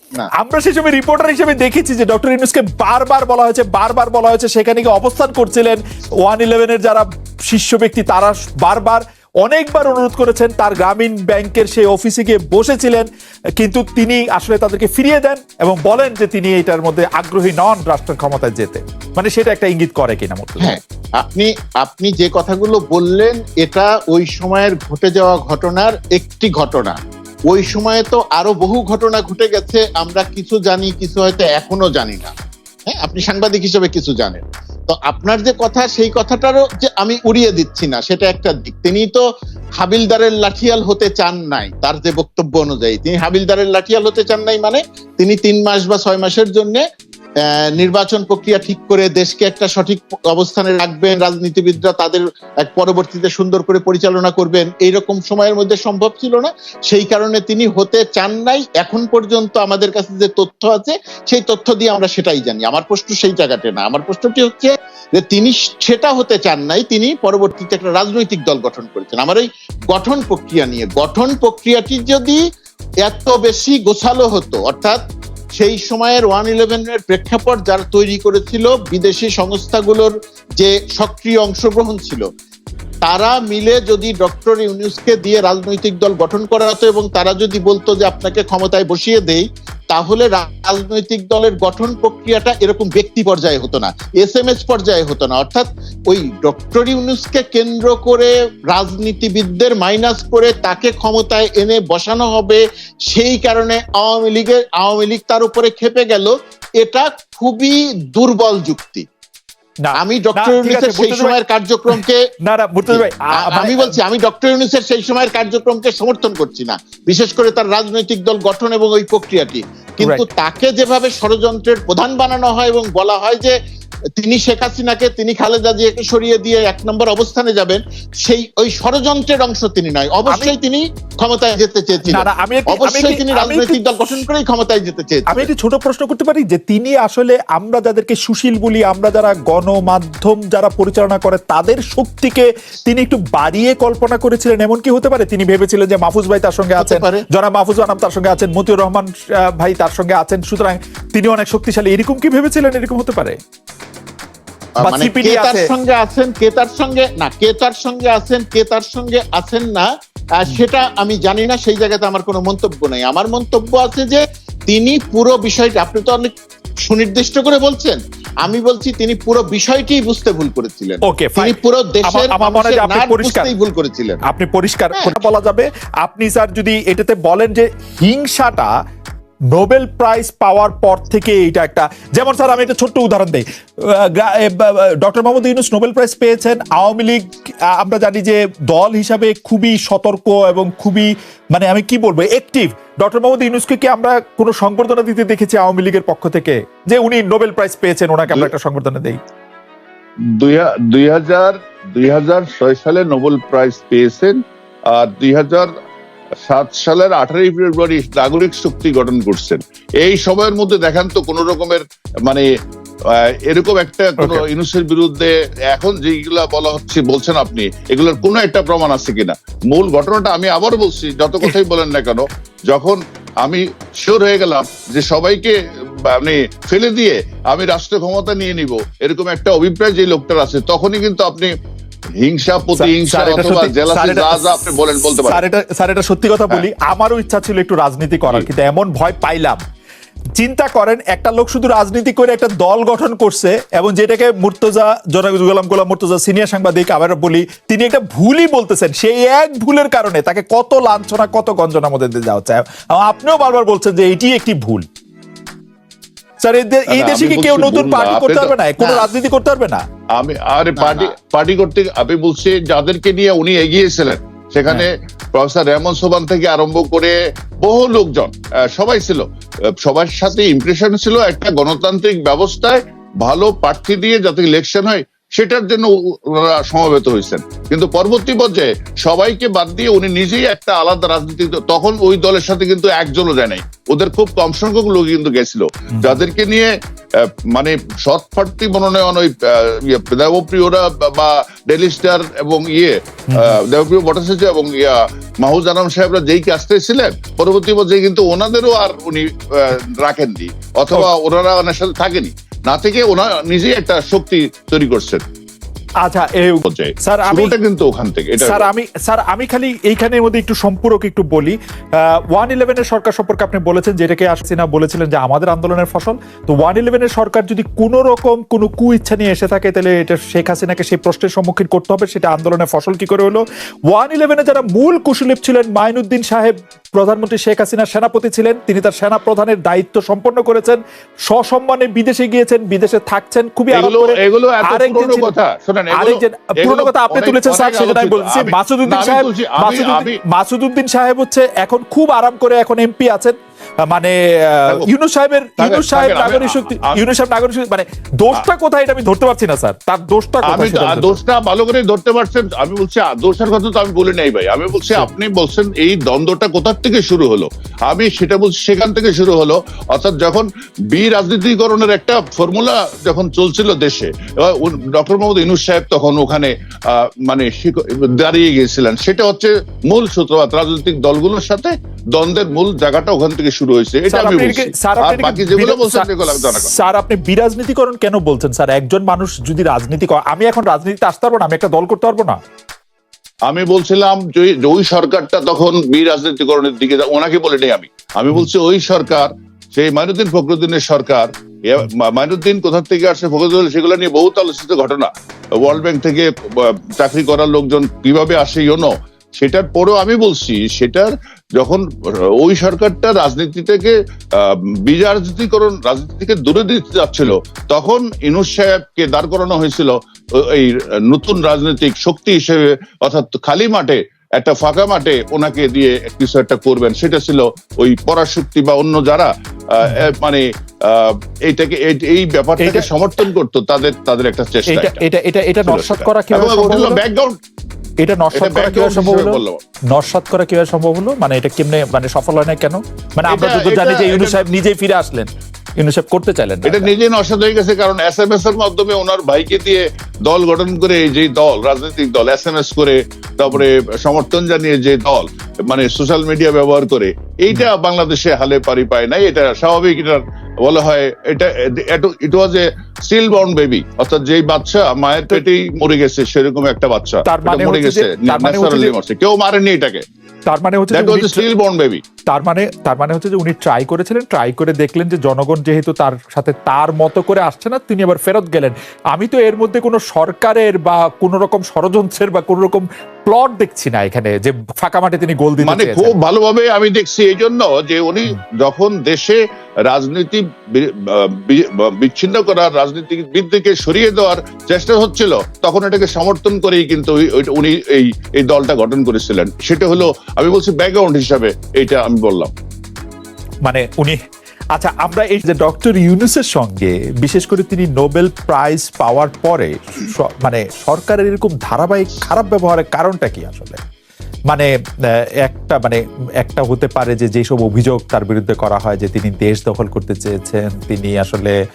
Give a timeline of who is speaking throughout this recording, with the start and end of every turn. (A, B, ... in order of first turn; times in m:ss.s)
0:00.4-0:13.1 A
0:13.6-0:20.8 A
0:20.6-0:27.0 B
0:27.5-0:32.3 B
0:32.9-0:39.2 B
0:39.8-0:46.8 B
0:47.5-1:12.4 B
1:13.0-1:15.0 B
1:15.6-1:22.2 B
1:23.0-1:49.1 B
1:49.8-1:51.4 A
1:50.0-1:52.2 B
1:52.0-1:54.0 A
1:52.9-2:03.5 B
2:04.2-2:15.5 B
2:10.3-2:10.5 A
2:12.0-2:13.8 A
2:15.3-2:33.4 A
2:26.8-2:27.2 B
2:34.8-2:35.6 A
2:34.8-2:39.9 B
2:40.4-2:46.3 B
2:46.8-2:54.2 B
2:51.0-2:53.5 A
2:54.2-2:58.7 A
2:55.0-2:55.2 B
2:59.5-3:19.2 A
3:20.4-3:25.7 C
3:26.4-3:32.5 C
3:33.1-3:51.5 C
3:34.2-3:34.5 A
3:52.2-3:55.4 C
3:52.8-3:59.6 A
4:00.4-4:14.8 A
4:16.4-4:19.8 A
4:16.9-4:18.5 C
4:18.8-4:19.1 B
4:20.2-4:29.3 C
4:20.8-4:21.1 B
4:29.8-5:05.2 C
4:45.9-4:46.2 A
4:53.3-4:53.6 A
5:06.0-5:07.5 A
5:06.7-5:08.7 C
5:08.4-5:35.3 A
5:33.7-5:40.2 C
5:35.9-5:51.2 A
5:45.6-5:47.0 C
5:50.5-6:16.7 C
6:14.1-6:22.4 A
6:23.5-7:05.0 C
6:59.8-7:00.1 A
7:02.6-7:02.9 A
7:04.7-7:07.0 A
7:05.6-7:07.4 C
7:08.0-7:16.9 A
7:08.3-7:09.6 C
7:13.3-7:14.4 C
7:16.6-7:40.0 C
7:37.3-7:39.0 A
7:40.5-7:41.5 A
7:40.9-7:42.0 C
7:42.3-7:56.1 A
7:55.6-8:12.5 C
8:13.6-8:14.2 A
8:14.7-8:23.8 A
8:25.4-8:31.5 A